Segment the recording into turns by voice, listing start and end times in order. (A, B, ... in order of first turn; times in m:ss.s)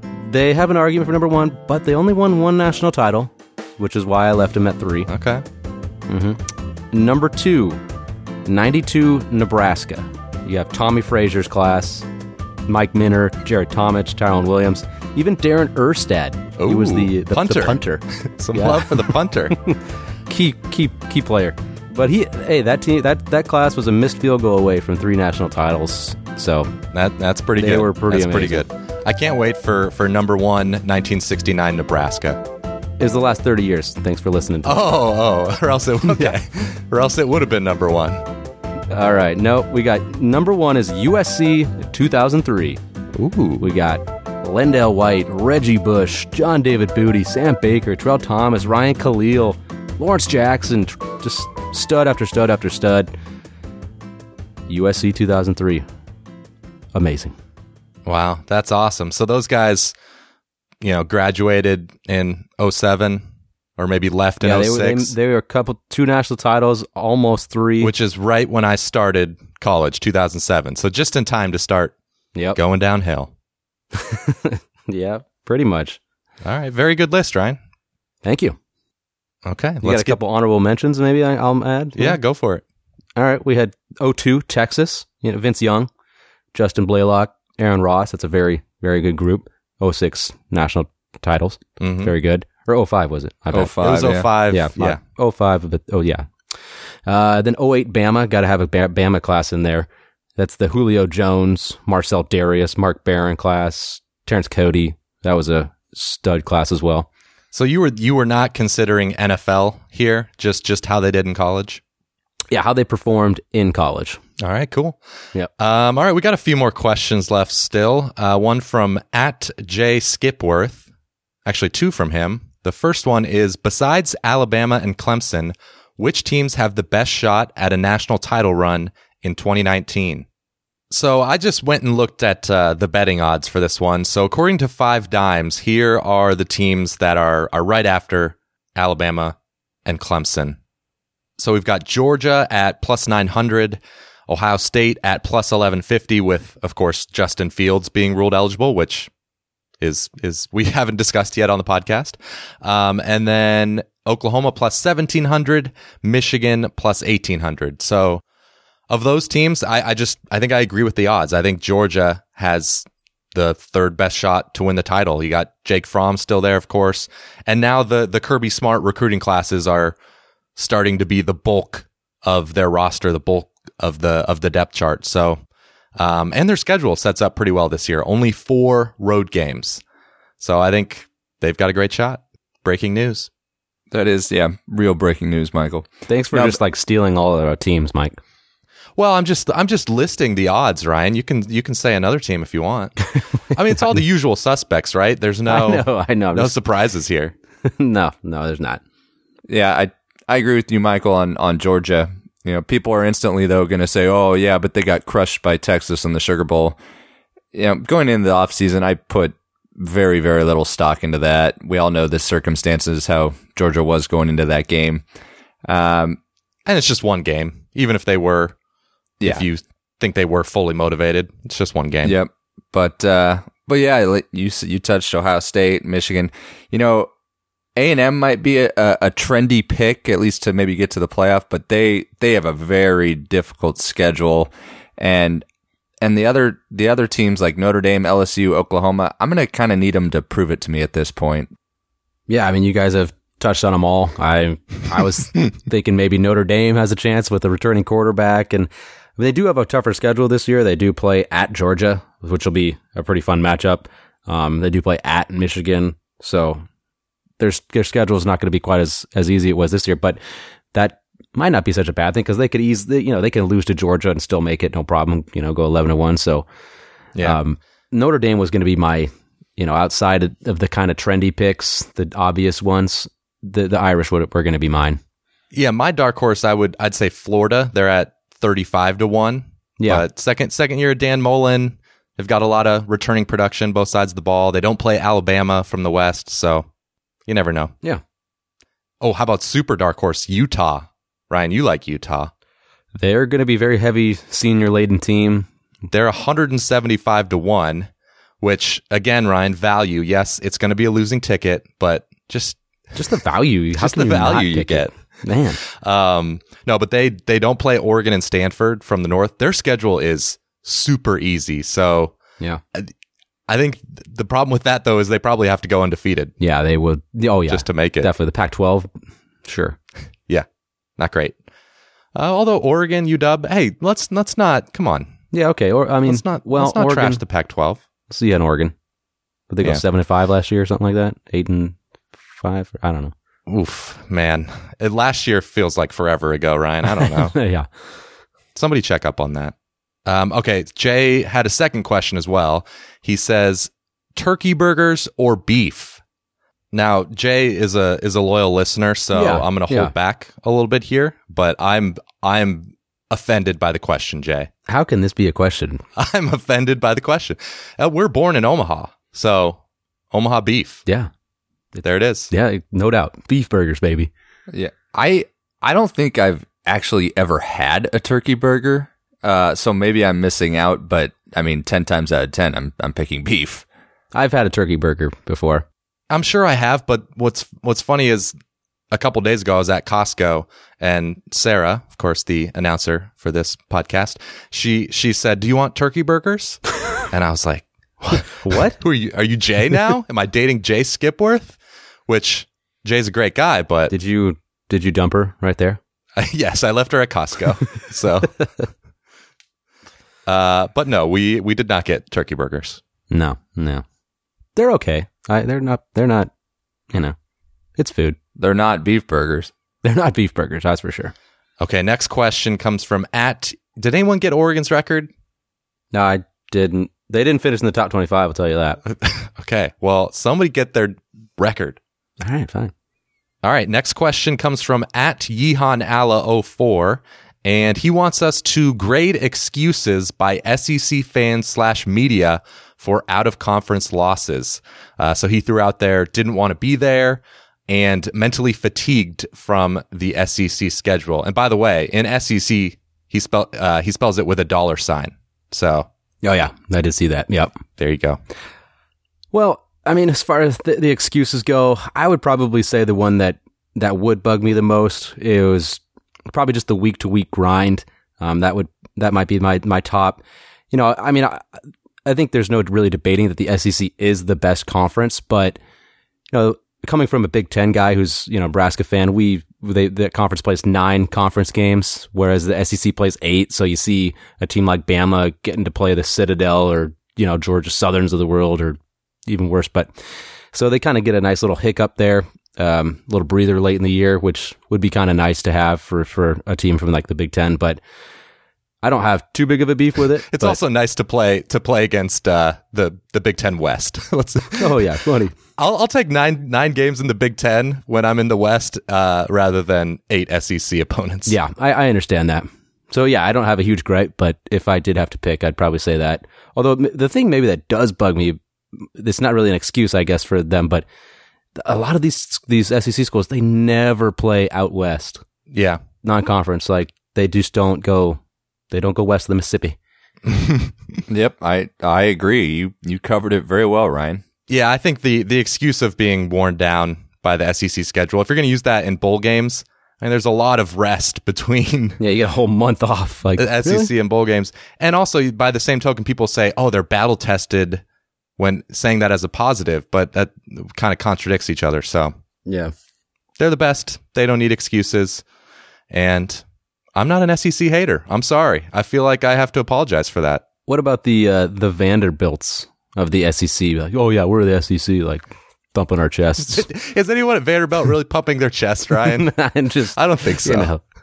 0:00.2-0:05.1 A
0:05.1-0:05.4 B
0:06.1-0:07.8 A
0:08.4-0:12.0 A
0:12.6-0:19.8 A
0:16.6-0:19.6 B
0:20.3-0:26.7 A
0:26.9-0:32.4 B
0:27.6-0:28.6 A
0:33.0-0:34.9 A
0:34.6-0:38.2 B
0:36.1-0:36.4 A
0:38.9-0:42.8 A
0:43.1-0:43.6 B
0:43.6-0:53.1 A
0:54.7-0:55.8 A
0:56.9-0:57.3 A
0:58.0-0:59.9 B
1:00.8-1:03.2 B
1:03.8-1:05.1 B
1:04.4-1:07.9 A
1:07.8-1:11.9 B
1:12.6-1:13.3 B
1:13.9-1:16.0 A
1:16.4-1:17.6 B
1:18.2-1:18.6 A
1:19.4-1:20.2 B
1:19.8-1:22.2 A
1:22.0-1:22.6 B
1:23.2-1:25.9 A
1:26.5-1:33.8 A
1:31.8-1:32.1 B
1:33.5-1:34.3 C
1:33.8-1:35.0 B
1:34.5-1:36.3 A
1:37.0-1:47.1 A
1:47.5-1:51.8 B
1:52.5-1:54.2 A
1:54.4-1:55.0 B
1:55.6-2:00.8 B
2:01.4-2:10.2 B
2:10.9-2:20.6 B
2:21.4-2:29.1 B
2:29.8-2:38.2 B
2:38.9-2:49.9 B
2:50.6-2:55.4 B
2:56.0-2:59.8 B
3:00.4-3:03.3 B
3:03.9-3:06.6 C
3:06.1-3:08.2 A
3:09.0-3:17.3 B
3:15.5-3:16.5 A
3:17.6-3:18.8 A
3:19.5-3:26.8 C
3:27.5-3:35.0 C
3:35.7-3:36.2 C
3:36.6-3:38.5 B
3:39.2-3:42.2 B
3:42.0-3:47.1 C
3:47.8-3:55.4 C
3:56.0-4:01.5 C
4:02.3-4:16.6 A
4:17.4-4:20.2 A
4:20.7-4:26.4 A
4:27.2-4:35.0 A
4:35.5-4:46.6 B
4:39.8-4:40.0 A
4:47.3-4:47.7 B
4:49.0-4:52.3 B
4:53.0-4:55.5 A
4:55.9-4:57.9 B
4:58.4-5:02.6 B
5:02.9-5:05.6 A
5:03.7-5:04.9 B
5:05.6-5:12.2 B
5:13.5-5:16.3 B
5:16.4-5:18.9 A
5:17.5-5:18.1 B
5:19.4-5:19.8 A
5:21.0-5:21.4 B
5:22.1-5:25.1 B
5:25.3-5:27.2 A
5:26.0-5:27.8 B
5:28.1-5:28.7 A
5:29.5-5:31.8 A
5:32.4-5:33.1 A
5:33.5-5:37.4 B
5:36.9-5:37.7 A
5:38.5-5:39.5 B
5:40.0-5:46.0 B
5:46.7-5:54.5 B
5:49.1-5:49.9 A
5:54.7-5:55.8 A
5:56.0-5:59.6 B
6:00.1-6:00.8 B
6:01.8-6:02.3 B
6:02.3-6:04.1 A
6:04.5-6:13.6 C
6:14.1-6:15.6 A
6:16.1-6:18.3 B
6:18.9-6:31.6 B
6:28.4-6:28.8 A
6:32.1-6:33.9 B
6:33.9-6:35.8 A
6:36.2-6:38.4 B
6:40.2-6:42.8 B
6:43.1-6:43.8 A
6:44.6-6:46.3 A
6:47.8-6:48.2 A
6:48.4-6:49.5 C
6:49.8-6:51.1 A
6:51.6-6:55.1 B
6:55.9-6:58.8 A
6:58.8-7:01.8 B
7:02.2-7:02.7 A
7:03.4-7:25.9 B
7:26.2-7:27.6 A
7:27.8-7:28.2 B
7:29.3-7:41.4 A
7:42.0-7:45.6 A
7:46.3-7:59.9 A
8:00.5-8:07.8 A
8:08.8-8:10.6 A
8:10.3-8:14.8 B
8:14.6-8:15.3 A
8:15.6-8:21.3 B
8:21.3-8:30.8 A
8:31.6-8:35.2 A
8:35.5-8:35.8 B
8:36.0-8:38.2 A
8:38.7-8:39.8 A
8:40.3-8:40.7 B
8:41.1-8:44.2 C
8:44.5-8:52.0 B
8:52.0-8:53.9 A
8:53.4-8:57.8 B
8:58.4-9:02.1 B
9:02.4-9:02.7 A
9:03.4-9:05.2 B
9:05.9-9:06.4 B
9:06.9-9:10.4 B
9:10.7-9:16.7 A
9:16.5-9:19.3 B
9:19.0-9:20.8 A
9:19.9-9:20.7 B